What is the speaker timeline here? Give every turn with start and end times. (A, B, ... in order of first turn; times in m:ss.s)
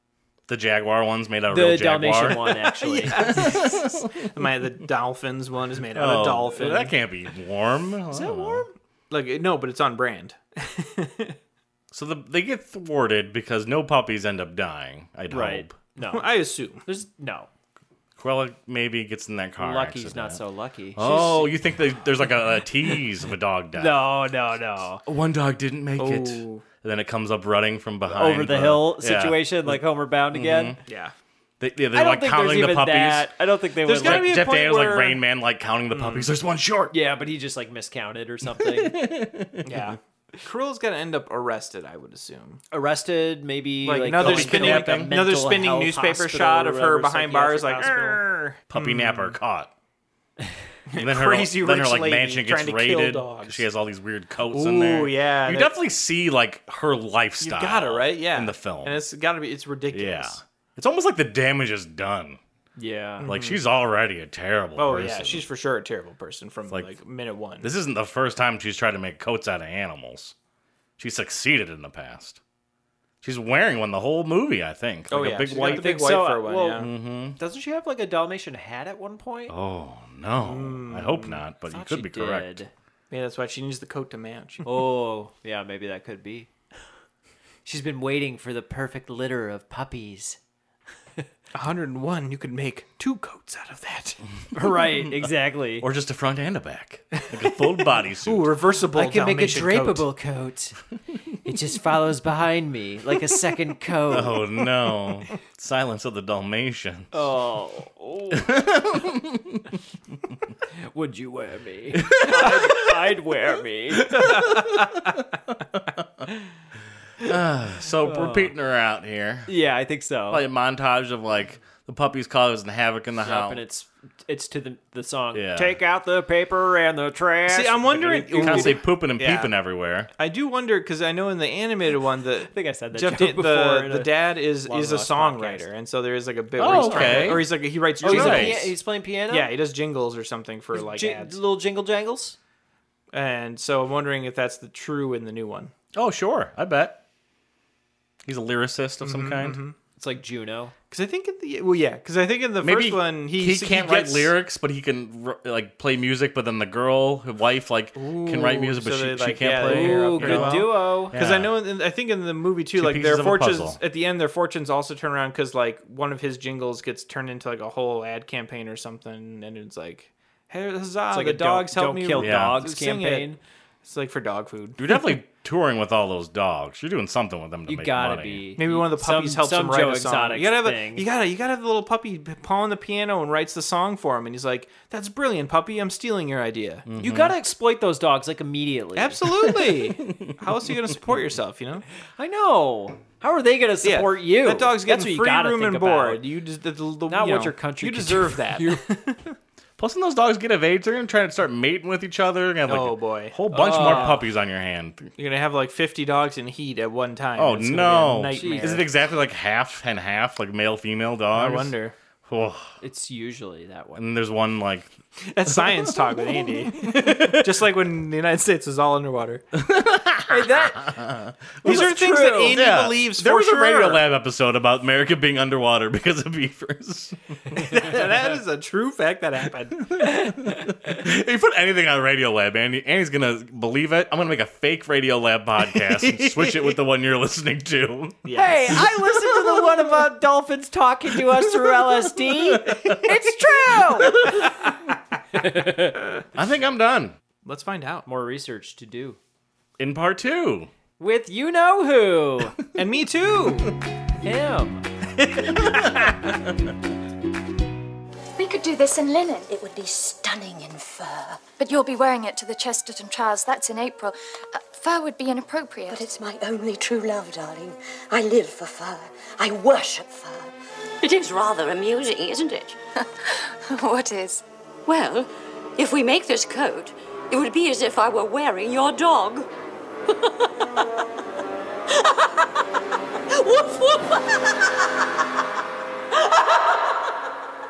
0:00.5-0:04.2 A
0:01.5-0:03.6 B
0:02.8-0:07.0 C
0:05.9-0:08.6 A
0:08.1-0:08.7 B
0:09.1-0:11.4 C
0:11.9-0:15.7 A
0:15.3-0:16.3 B
0:16.0-0:16.8 C
0:16.8-0:17.5 B
0:18.2-0:20.4 A
0:19.6-0:21.5 B
0:21.0-0:24.0 A
0:23.8-0:25.0 B
0:25.0-0:29.8 A
0:26.0-0:26.6 C
0:28.1-0:30.8 B
0:30.3-0:30.8 A
0:30.9-0:31.1 C
0:31.6-0:33.3 A
0:31.9-0:34.4 B
0:33.8-0:35.2 C
0:34.0-0:36.9 A
0:35.9-0:36.3 C
0:36.9-0:39.0 B
0:38.6-0:39.9 A
0:39.6-0:42.6 C
0:42.7-0:48.2 B
0:43.8-0:49.4 C
0:44.2-0:45.1 A
0:48.7-0:49.7 A
0:50.9-0:53.6 C
0:51.0-0:59.0 A
0:54.5-0:55.7 C
0:57.4-1:00.4 C
0:59.9-1:02.4 A
1:02.8-1:03.2 B
1:03.2-1:03.6 C
1:03.2-1:05.4 A
1:04.8-1:07.7 C
1:07.6-1:10.3 A
1:11.0-1:12.4 A
1:13.2-1:16.0 A
1:15.1-1:16.9 C
1:15.5-1:19.5 B
1:16.8-1:17.4 A
1:19.5-1:22.6 A
1:20.4-1:21.4 C
1:21.7-1:22.7 B
1:23.1-1:24.7 C
1:24.6-1:26.5 B
1:27.6-1:30.4 B
1:31.5-1:34.2 C
1:34.5-1:35.9 B
1:35.8-1:38.5 A
1:37.4-1:40.0 C
1:38.9-1:40.8 B
1:41.4-1:44.4 B
1:44.1-1:47.1 A
1:47.1-1:48.5 B
1:48.4-1:49.6 A
1:50.9-1:54.5 B
1:52.0-1:52.9 A
1:54.0-1:56.0 A
1:57.2-1:59.5 A
1:58.0-1:58.5 B
1:59.4-2:00.4 B
2:00.3-2:03.6 A
2:03.2-2:08.8 B
2:05.3-2:05.8 A
2:07.5-2:09.5 C
2:08.3-2:10.1 A
2:10.2-2:18.7 C
2:12.5-2:15.7 B
2:16.6-2:17.4 A
2:16.6-2:19.5 B
2:18.0-2:18.6 A
2:19.3-2:21.4 C
2:20.7-2:22.4 B
2:23.1-2:25.7 C
2:25.9-2:27.0 A
2:28.2-2:29.6 A
2:29.0-2:29.8 C
2:30.0-2:30.7 B
2:30.9-2:34.3 C
2:32.6-2:41.6 A
2:38.0-2:53.3 C
2:39.6-2:41.1 B
2:42.8-2:43.8 A
2:51.1-2:53.4 B
2:52.2-2:52.6 A
2:53.8-2:54.8 C
2:54.8-2:58.4 A
2:57.7-3:01.0 B
2:58.6-3:06.9 C
3:06.9-3:07.4 A
3:07.0-3:09.5 B
3:09.0-3:11.8 C
3:10.1-3:10.4 A
3:12.2-3:16.2 B
3:13.8-3:19.3 C
3:17.1-3:18.9 B
3:19.8-3:25.1 A
3:22.6-3:24.2 C
3:23.5-3:24.2 B
3:25.2-3:28.9 C
3:27.4-3:31.7 A
3:28.3-3:28.8 B
3:31.3-3:32.0 C
3:32.3-3:32.7 A
3:32.8-3:34.0 B
3:34.0-3:34.9 A
3:35.2-3:39.4 C
3:35.5-3:35.9 A
3:39.6-3:42.0 A
3:40.3-3:41.0 B
3:41.6-3:42.6 B
3:41.6-3:44.0 C
3:42.5-3:47.6 A
3:47.6-3:49.9 C
3:49.8-3:58.2 A
3:55.6-3:56.8 C
3:58.2-3:59.6 C
3:58.3-4:04.6 B
4:02.7-4:03.0 A
4:02.9-4:04.3 C
4:05.4-4:06.1 B
4:06.3-4:07.1 A
4:07.4-4:08.1 C
4:08.0-4:09.2 B
4:09.8-4:10.7 A
4:11.0-4:12.6 B
4:12.7-4:13.7 C
4:14.2-4:14.8 B
4:15.2-4:16.2 C
4:15.7-4:16.1 A
4:19.4-4:21.5 D
4:21.6-4:24.1 E
4:24.7-4:26.1 E
4:25.9-4:32.8 D
4:33.3-4:34.4 E
4:34.9-4:39.5 D
4:43.4-4:44.1 D